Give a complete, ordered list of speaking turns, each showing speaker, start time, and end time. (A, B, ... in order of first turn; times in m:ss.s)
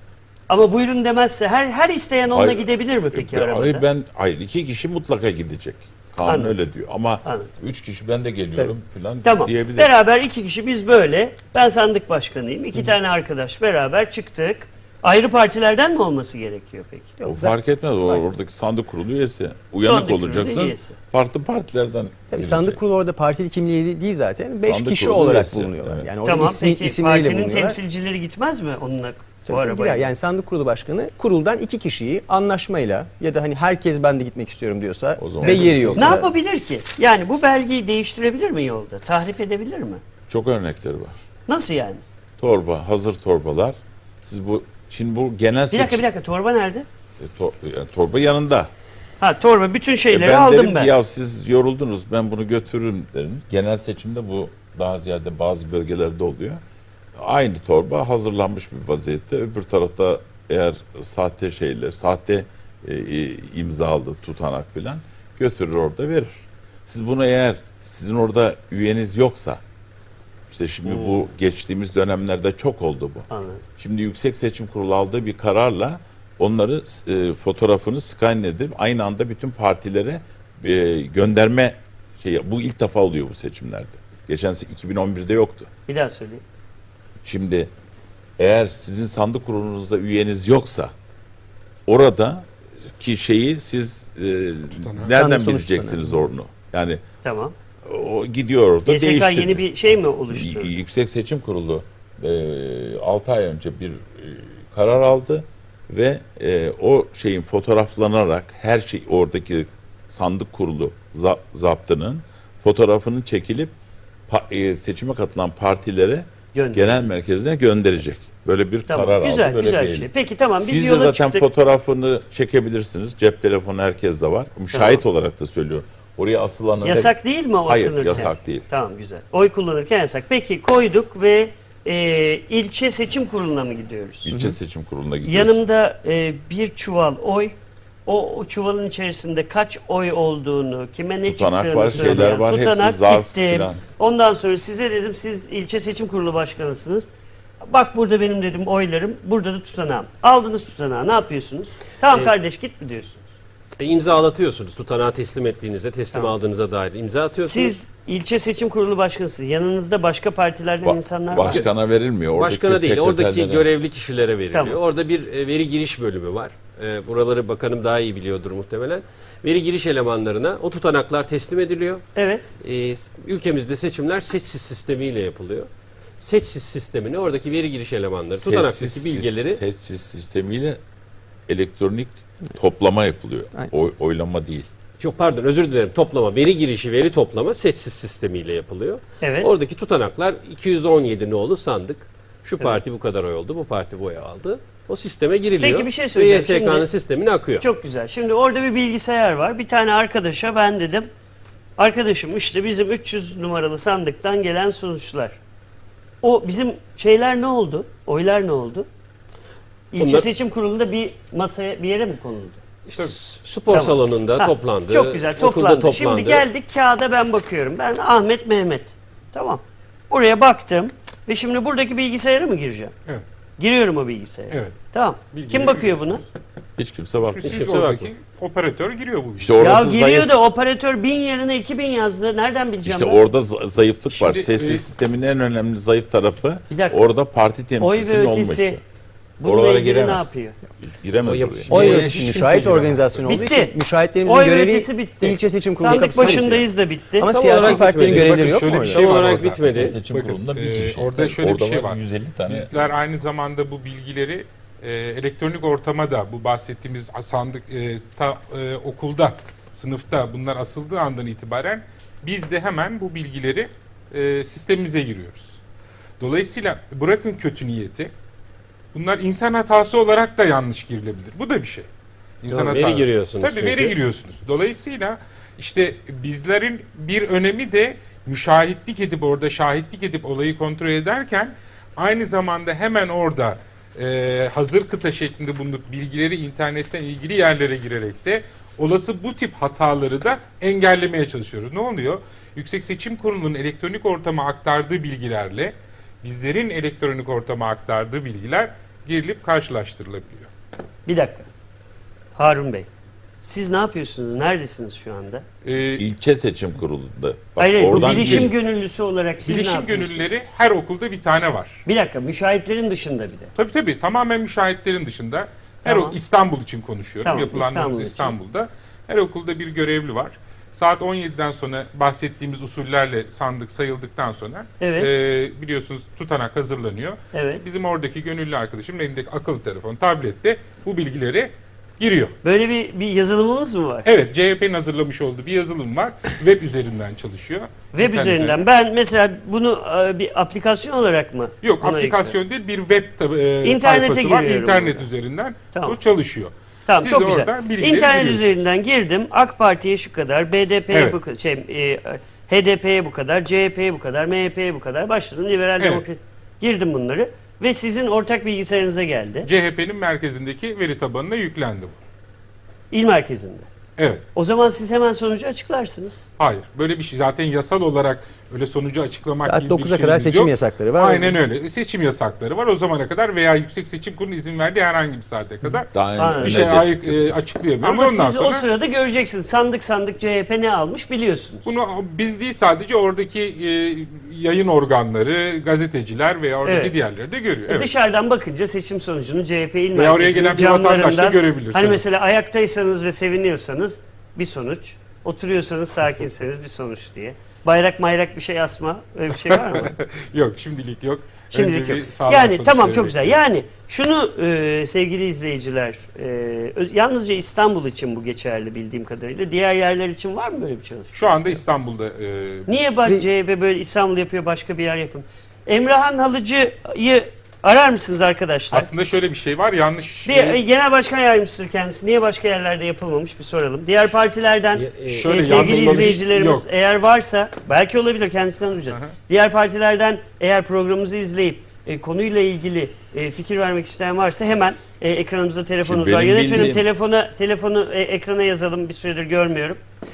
0:00.5-0:03.8 A
0:02.3-0:09.9 B
0:06.2-0:06.6 A
0:07.2-0:07.5 A
0:09.2-0:17.1 A
0:17.2-0:18.4 C
0:17.2-0:22.8 B
0:19.8-0:21.0 A
0:22.3-0:27.8 C
0:24.6-0:26.1 B
0:26.2-0:30.1 A
0:29.5-0:36.3 C
0:35.2-0:36.2 B
0:35.5-0:40.0 A
0:40.3-0:41.2 B
0:41.5-0:42.0 A
0:42.4-0:46.0 B
0:45.7-0:46.9 A
0:47.2-0:48.7 B
0:49.2-0:50.9 A
0:50.1-0:56.6 B
0:57.2-1:09.6 B
1:10.5-1:25.7 B
1:10.9-1:11.2 A
1:13.3-1:13.6 A
1:25.9-1:26.4 A
1:27.2-1:27.7 B
1:28.4-1:30.9 B
1:31.9-1:37.0 B
1:34.8-1:35.1 D
1:35.1-1:36.3 C
1:37.2-1:37.5 A
1:37.8-1:39.6 B
1:38.8-1:40.7 A
1:40.3-1:53.7 B
1:54.3-2:07.1 B
1:56.5-1:56.9 A
1:58.9-2:01.4 A
2:04.7-2:05.0 A
2:06.8-2:14.3 A
2:07.6-2:08.6 B
2:14.2-2:15.6 B
2:14.3-2:14.5 C
2:15.2-2:27.1 A
2:21.2-2:23.8 B
2:27.6-2:33.2 A
2:33.8-2:37.8 E
2:37.4-2:41.6 A
2:40.8-2:43.6 B
2:42.4-2:52.0 E
2:44.5-2:44.8 A
2:52.2-2:52.4 A
2:52.6-2:55.7 E
2:56.2-2:59.6 E
2:58.4-3:00.8 B
3:01.5-3:04.7 B
3:05.0-3:17.6 E
3:09.2-3:09.5 A
3:15.6-3:16.9 A
3:17.6-3:21.1 A
3:21.8-3:25.4 A
3:26.2-3:28.9 A
3:29.9-3:32.6 A
3:30.0-3:30.3 E
3:32.9-3:36.4 E
3:33.7-3:42.9 A
3:43.6-3:46.2 A
3:45.3-3:46.0 D
3:46.8-3:47.6 B
3:47.2-3:49.9 D
3:47.4-3:48.1 E
3:49.4-3:50.3 B
3:49.6-3:53.2 A
3:52.8-3:58.8 B
3:54.1-3:54.8 D
3:56.7-3:57.0 A
3:57.8-3:58.8 A
3:59.4-4:00.6 A
3:59.4-4:02.0 B
4:01.2-4:02.7 E
4:01.7-4:03.5 D
4:01.7-4:09.1 C
4:03.2-4:03.7 A
4:04.2-4:07.6 A
4:05.9-4:06.6 E
4:07.3-4:10.0 E
4:07.5-4:25.6 D
4:09.4-4:12.7 B
4:26.2-4:28.1 D
4:28.9-4:31.9 D
4:32.4-5:00.5 D
4:32.5-4:34.0 E
5:01.0-5:01.5 A
5:02.4-5:02.9 A
5:03.4-5:05.4 A
5:05.6-5:06.0 D
5:06.0-5:08.5 B
5:07.6-5:10.2 A
5:07.9-5:08.5 D
5:09.4-5:11.8 D
5:11.8-5:13.5 A
5:13.6-5:32.4 D
5:15.8-5:16.2 A
5:17.2-5:18.3 A
5:24.8-5:25.1 A
5:27.3-5:27.6 A
5:32.4-5:34.1 A
5:34.0-5:38.6 D
5:37.9-5:42.4 A
5:41.6-5:48.7 D
5:43.6-5:45.0 A
5:45.7-5:46.0 A
5:46.9-5:59.5 A
5:50.9-5:51.2 D
5:59.4-6:02.0 D
6:02.9-6:03.7 A
6:04.0-6:04.2 D
6:04.3-6:06.2 A
6:06.4-6:18.6 D
6:09.4-6:11.4 C
6:15.9-6:17.3 B
6:16.2-6:16.7 A
6:17.8-6:21.7 A
6:21.6-6:27.9 D
6:26.6-6:26.9 A
6:27.7-6:39.9 A
6:29.9-6:32.0 D
6:39.5-6:43.4 D
6:41.5-6:51.1 A
6:51.1-6:52.9 D
6:52.7-6:58.9 A
6:58.7-7:00.6 D
7:00.2-7:19.8 A
7:04.7-7:06.2 E
7:05.0-7:06.6 D
7:15.8-7:16.8 B